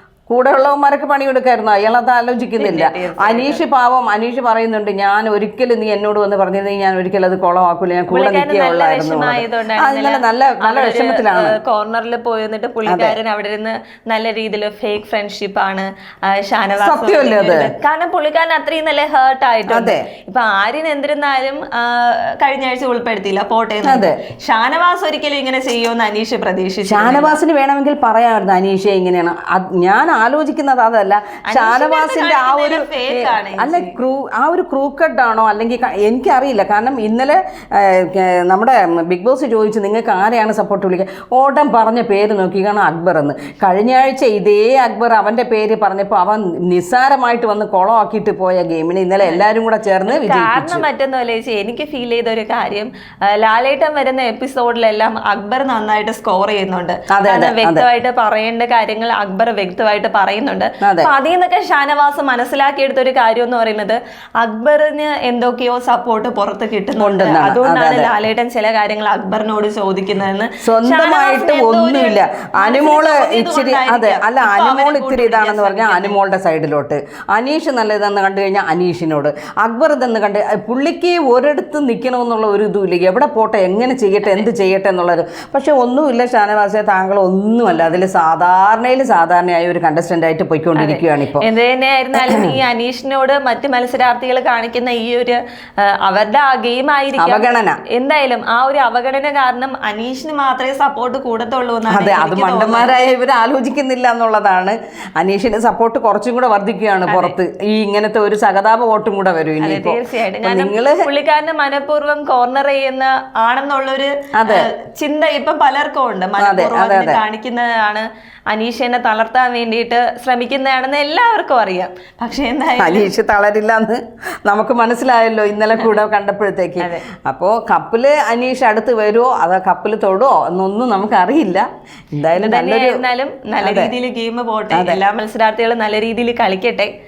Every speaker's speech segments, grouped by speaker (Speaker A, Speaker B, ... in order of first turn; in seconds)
Speaker A: 0.3-11.5, 12.8-13.2, 16.8-17.7, 19.7-20.0, 23.8-24.1, 26.9-50.8, 57.1-57.8, 60.8-61.1, 67.0-68.1, 70.6-91.4, 92.2-92.5, 97.2-97.8, 101.9-111.1, 114.4-114.7, 116.4-117.2, 122.8-133.0, 133.6-133.9, 134.7-135.0
Speaker B: 2.6-3.6, 8.1-27.4, 31.5-34.0, 50.0-76.2, 90.8-102.9, 107.1-107.3, 109.6-123.1, 132.3-136.9